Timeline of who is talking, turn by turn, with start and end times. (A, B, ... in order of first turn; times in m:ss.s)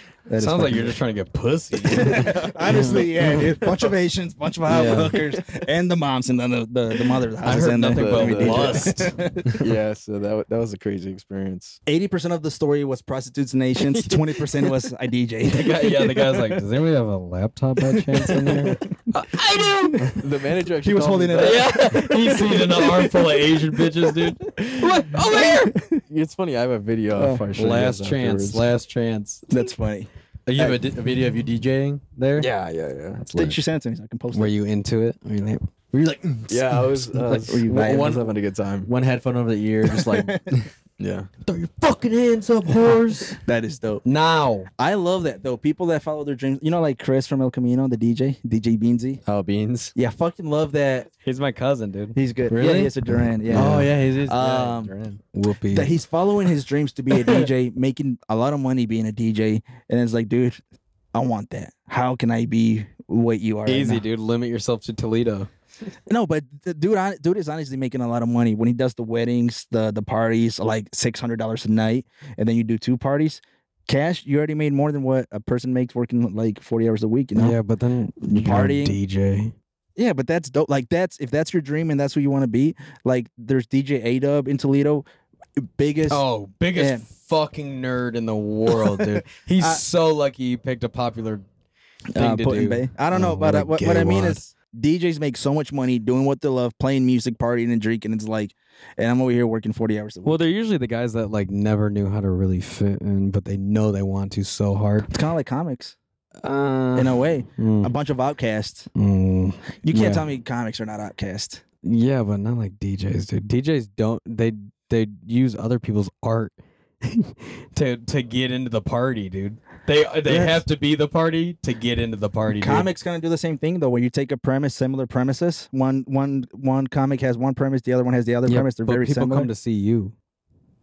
0:00.3-0:01.0 A
0:00.4-0:03.4 B
0:01.7-0:03.8 C
0:01.9-0:09.6 A
0:04.7-0:05.2 B
0:07.4-0:09.2 B
0:07.9-0:08.9 C
0:09.5-0:11.8 C
0:11.9-0:16.0 A
0:13.9-0:14.7 C
0:15.5-0:20.2 B
0:20.1-0:22.6 C
0:20.8-0:22.9 A
0:21.4-0:25.8 B
0:24.6-0:24.9 C
0:25.7-0:26.0 A
0:26.1-0:28.7 C
0:27.1-0:27.4 A
0:27.6-0:29.4 B
0:29.5-0:30.8 A
0:30.4-0:32.1 D
0:32.2-0:32.5 B
0:32.4-0:33.2 C
0:33.3-0:34.5 A
0:34.3-0:35.6 B
0:35.9-0:36.6 D
0:36.4-0:38.9 C
0:37.4-0:38.4 A
0:38.8-0:40.7 D
0:40.1-0:40.5 A
0:41.0-0:41.3 C
0:41.4-0:43.4 B
0:43.4-0:44.0 A
0:44.0-0:44.7 B
0:44.8-0:49.2 A
0:49.2-0:49.9 D
0:49.9-0:51.1 A
0:51.2-0:52.2 B
0:52.1-0:54.9 A
0:52.5-0:52.9 D
0:53.5-0:53.9 B
0:53.5-0:55.2 D
0:55.3-0:56.0 B
0:55.7-1:00.6 A
1:01.1-1:04.0 A
1:03.6-1:05.5 B
1:06.1-1:17.6 A
1:17.4-1:19.5 B
1:18.2-1:19.0 A
1:20.0-1:25.0 A
1:25.6-1:26.2 A
1:26.1-1:31.4 B
1:26.7-1:27.0 A
1:28.7-1:29.8 A
1:32.1-1:40.4 A
1:32.2-1:34.4 B
1:40.2-1:45.1 B
1:45.1-1:46.0 A
1:46.4-1:47.9 B
1:46.9-1:48.9 A
1:49.0-1:50.3 B
1:49.8-1:51.6 A
1:51.8-2:02.9 B
2:00.3-2:00.6 A
2:02.6-2:09.5 A
2:08.5-2:10.1 B